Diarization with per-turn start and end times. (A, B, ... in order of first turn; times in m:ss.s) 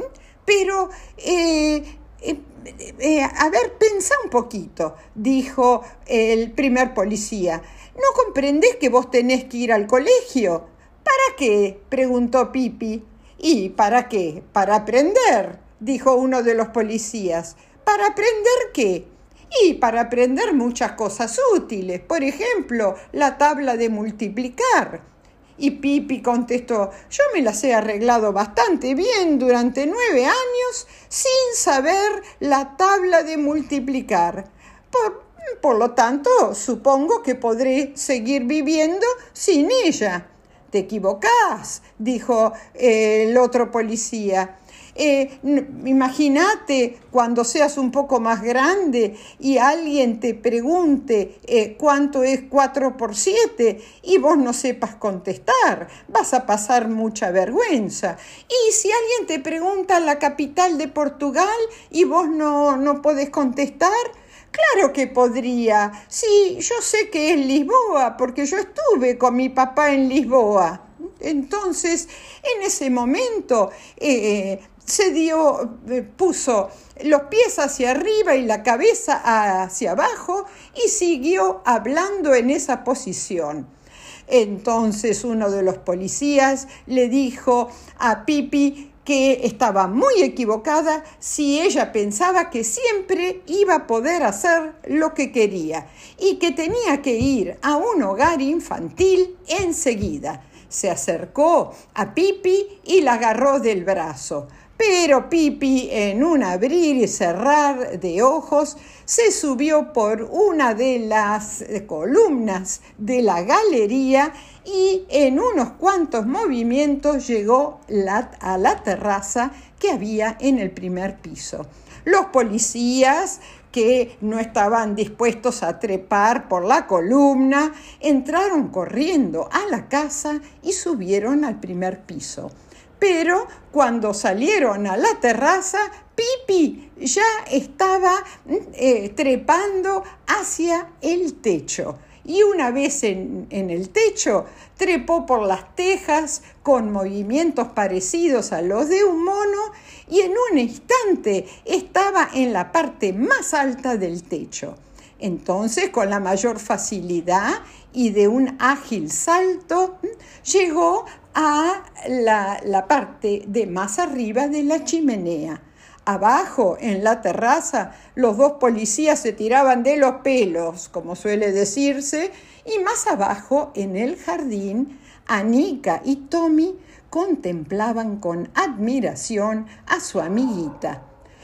0:00.4-0:25.0 A
0:25.6-1:23.7 A
1:24.3-3:01.0 A